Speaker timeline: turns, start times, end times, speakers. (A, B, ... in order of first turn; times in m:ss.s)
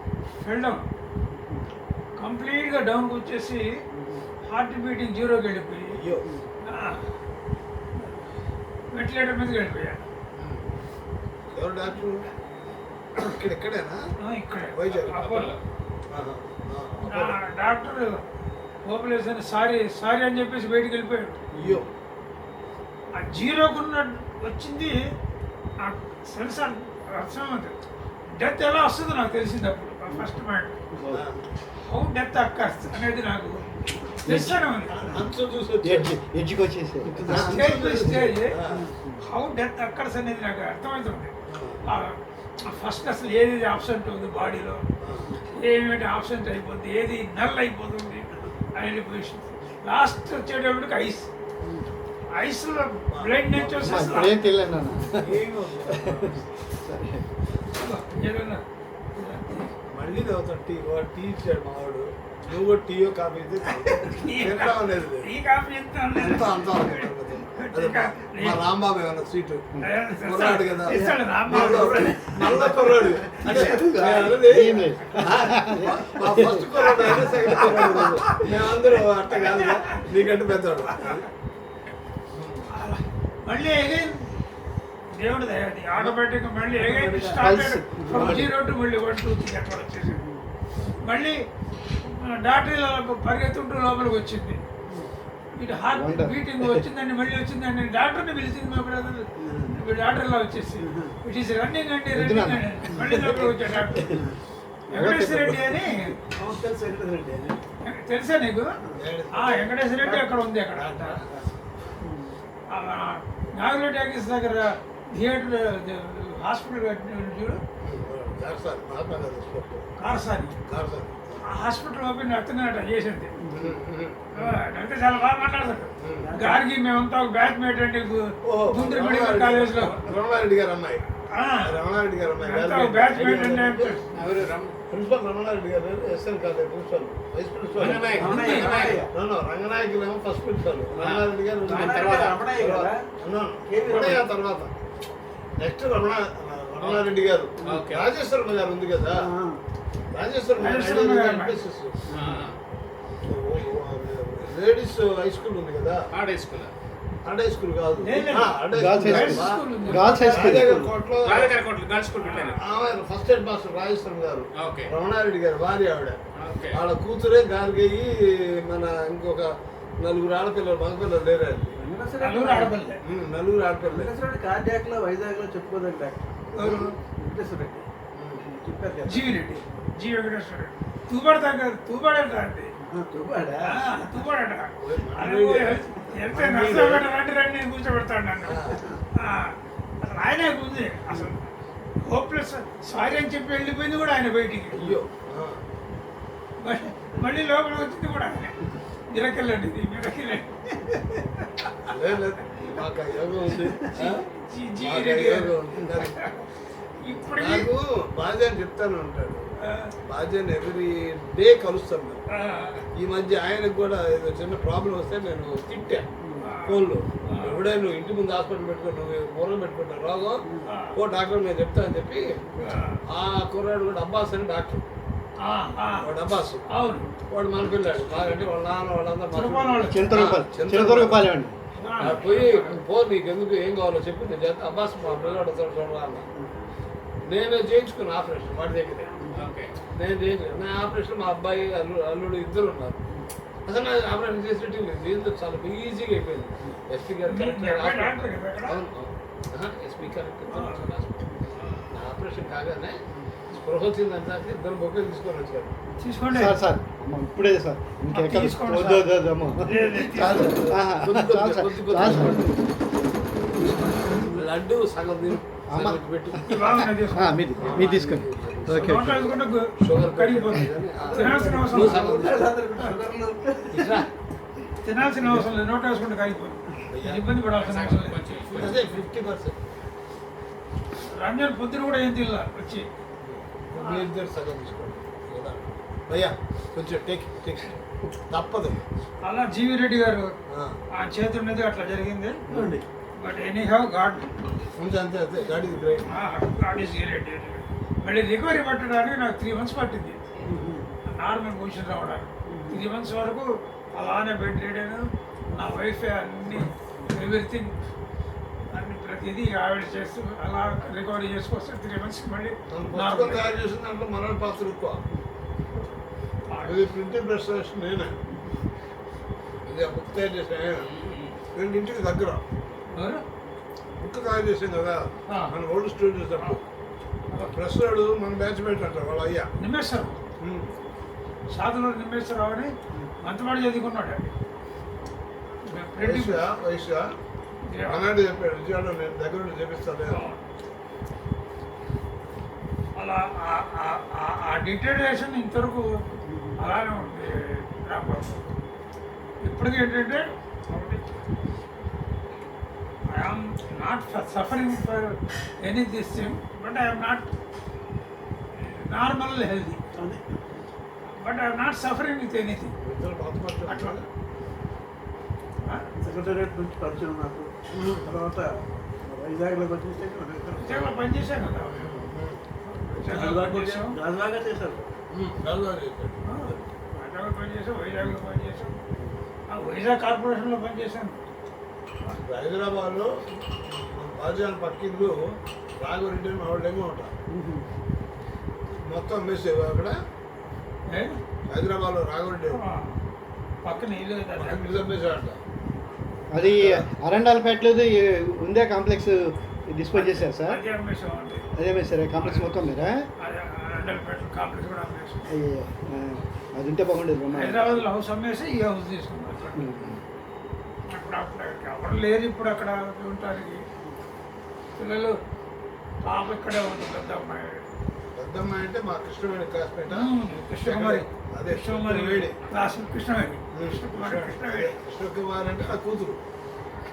0:00.4-0:00.8 A
0:01.3-0:01.7 B
0:02.2-0:03.8 A
0:03.9-0:04.2 B
0:04.5-0:06.0 A
0:05.9-0:06.3 C
0:06.6-0:07.0 A
0:08.9-0:10.0 A
0:10.3-0:10.7 C
0:11.5-0:12.3 C
0:13.2-0:14.0 C
0:14.2-0:15.6 A
0:14.7-0:15.5 C
0:15.1-0:15.6 D
0:16.1-0:17.4 C
0:17.0-0:18.2 A
0:18.8-0:21.4 A
0:21.5-0:21.8 B
0:21.6-0:21.9 C
0:23.1-0:25.0 A
0:25.8-0:27.7 A
0:28.3-0:30.8 A
0:31.1-0:31.4 C
0:31.8-0:33.6 A
0:34.2-0:35.0 A
0:34.3-0:34.7 E
0:34.3-0:36.2 C
0:35.8-0:37.7 E
0:37.1-0:38.8 C
0:37.3-0:38.6 A
0:38.7-0:38.9 B
0:39.2-0:41.3 A
0:41.5-0:41.8 C
0:41.8-0:44.8 A
0:45.0-0:45.3 C
0:45.5-0:51.3 A
0:52.3-0:54.6 A
0:53.1-0:54.4 C
0:53.8-0:57.2 E
0:55.2-0:56.5 C
0:57.7-0:58.6 A
0:59.1-0:59.7 A
0:59.9-1:05.3 C
1:03.7-1:08.6 A
1:06.1-1:21.2 C
1:09.8-1:13.9 A
1:10.9-1:14.5 B
1:14.3-1:17.8 E
1:16.8-1:18.6 A
1:19.3-1:20.0 A
1:20.9-1:21.2 A
1:22.3-1:22.7 C
1:22.7-1:24.2 A
1:25.1-1:30.2 A
1:26.7-1:27.4 B
1:27.4-1:28.6 E
1:28.0-1:28.4 B
1:30.1-1:30.5 B
1:31.0-1:31.4 A
1:32.0-1:34.6 A
1:35.6-1:44.1 A
1:35.9-1:36.8 E
1:39.4-1:39.8 B
1:40.8-1:41.2 B
1:42.1-1:42.9 E
1:43.0-1:44.0 C
1:44.0-1:44.4 B
1:44.9-1:45.9 E
1:44.9-1:46.1 A
1:46.2-1:47.6 B
1:47.8-1:48.7 A
1:48.9-1:49.8 C
1:49.3-1:51.2 A
1:50.7-1:51.4 C
1:52.0-1:52.4 B
1:52.7-1:57.6 A
1:57.8-1:59.9 C
2:00.0-2:00.5 A
2:00.6-2:01.4 C
2:01.4-2:03.3 A
2:03.4-2:03.8 B
2:03.5-2:04.6 C
2:04.3-2:10.0 A
2:06.0-2:06.3 C
2:06.2-2:06.6 B
2:08.4-2:11.0 C
2:11.3-2:11.8 A
2:11.6-2:14.0 C
2:12.4-2:14.0 A
2:14.1-2:14.7 D
2:14.9-2:24.7 C
2:17.7-2:19.0 D
2:18.1-2:19.1 B
2:18.2-2:18.9 A
2:20.9-2:22.4 D
2:21.6-2:23.1 B
2:23.7-2:24.3 B
2:23.9-2:24.2 A
2:25.6-2:29.3 C
2:26.8-2:27.1 D
2:27.6-2:28.1 D
2:29.1-2:29.6 B
2:30.1-2:32.4 C
2:30.6-2:31.6 A
2:32.1-2:32.6 D
2:33.2-2:36.1 C
2:36.1-2:36.7 D
2:37.2-2:41.6 C
2:38.0-2:40.8 A
2:38.7-2:40.9 E
2:41.2-2:42.6 D
2:42.4-2:46.2 C
2:44.6-2:44.9 D
2:46.3-2:46.8 D
2:46.7-2:51.8 C
2:51.8-2:52.8 B
2:52.2-2:53.0 A
2:53.0-2:54.1 C
2:53.8-2:56.3 B
2:56.5-2:56.9 C
2:56.5-2:56.9 A
2:57.0-2:57.8 B
2:58.1-2:58.4 C
2:58.4-2:59.4 B
2:59.0-3:02.7 A
3:02.8-3:03.8 B
3:03.6-3:11.4 A
3:04.8-3:07.1 C
3:08.4-3:08.9 C
3:12.0-3:14.9 A
3:14.7-3:15.6 C
3:16.6-3:21.4 A
3:21.8-3:24.2 C
3:23.5-3:23.9 B
3:23.6-3:26.4 A
3:24.8-3:26.2 C
3:27.0-3:27.7 A
3:27.1-3:32.2 C
3:29.6-3:29.9 A
3:32.3-3:32.8 A
3:32.9-3:44.9 C
3:36.2-3:36.5 B
3:36.4-3:37.6 A
3:40.6-3:41.0 A
3:42.6-3:43.0 A
3:45.4-3:46.1 A
3:46.0-3:46.7 C
3:46.7-3:47.1 A
3:47.3-3:51.3 C
3:49.3-3:50.4 A
3:49.9-3:51.5 E
3:51.8-3:52.8 A
3:52.0-3:56.3 C
3:55.0-3:55.4 D
3:56.4-3:56.7 B
3:57.2-3:59.2 C
3:59.3-3:59.7 D
3:59.9-4:03.1 C
4:03.6-4:15.8 C
4:07.3-4:08.8 A
4:10.5-4:10.9 A
4:16.0-4:16.6 A
4:16.3-4:22.6 E
4:18.1-4:20.6 A
4:20.0-4:22.7 C
4:23.5-4:24.5 B
4:23.5-4:26.9 C
4:25.7-4:29.3 E
4:26.5-4:28.0 A
4:27.6-4:32.9 C
4:28.7-4:32.2 A
4:31.0-4:34.0 B
4:33.7-4:34.0 C
4:34.8-4:38.3 A
4:35.2-4:35.5 C
4:36.9-4:37.2 C
4:37.5-4:39.0 D
4:38.5-4:39.6 C
4:41.0-4:42.8 A
4:43.2-4:48.8 C
4:43.8-4:44.0 A
4:49.2-4:50.3 A
4:50.5-4:50.8 C
4:50.9-4:52.4 A
4:52.5-4:52.8 C
4:52.5-4:52.8 B
4:53.2-4:54.4 A
4:54.8-4:56.1 C
4:56.1-5:00.2 A
5:00.4-5:00.9 B
5:01.0-5:07.7 A
5:02.5-5:02.8 B
5:08.7-5:13.6 A
5:12.7-5:15.0 C
5:16.5-5:16.8 A
5:16.6-5:18.2 C
5:19.6-5:20.9 C
5:20.7-5:21.3 D
5:21.5-5:22.4 C
5:22.9-5:23.2 A
5:24.0-5:26.6 C
5:25.3-5:25.5 A
5:27.3-5:27.5 A
5:27.4-5:29.5 C
5:29.6-5:30.2 A
5:30.4-5:30.7 C
5:31.5-5:34.2 A
5:35.6-5:36.4 A
5:36.0-5:37.1 C
5:37.7-5:38.0 A
5:37.9-5:40.3 C
5:40.1-5:40.4 A
5:43.0-5:46.0 A
5:46.2-5:46.6 B
5:46.6-5:48.5 A
5:49.4-5:51.0 A
5:53.1-5:57.3 A
5:58.6-5:59.8 A
6:00.0-6:00.6 B
6:01.1-6:02.7 A
6:02.8-6:04.1 C
6:03.6-6:04.0 A
6:05.6-6:05.9 A
6:06.0-6:10.9 B
6:07.8-6:08.1 C
6:10.6-6:12.0 A
6:11.6-6:12.4 C
6:12.6-6:14.0 A
6:13.1-6:14.9 B
6:15.1-6:16.4 C
6:16.2-6:18.8 A
6:19.5-6:21.2 A
6:22.2-6:27.1 C
6:27.3-6:27.6 B
6:28.9-6:30.0 C
6:30.9-6:31.2 A
6:31.5-6:32.6 C
6:32.5-6:33.0 A
6:33.6-6:34.9 A
6:34.3-6:35.4 C
6:36.3-6:40.6 E
6:36.3-6:36.8 C
6:39.9-6:41.5 A
6:41.6-6:43.0 E
6:42.2-6:42.5 A
6:43.2-6:45.3 A
6:45.3-6:47.9 E
6:47.4-6:49.8 A
6:49.5-6:50.0 E
6:50.9-6:53.6 A
6:54.8-6:55.2 A
6:56.0-6:57.6 A
6:58.1-7:02.4 C
6:59.9-7:04.7 A
7:03.5-7:06.2 C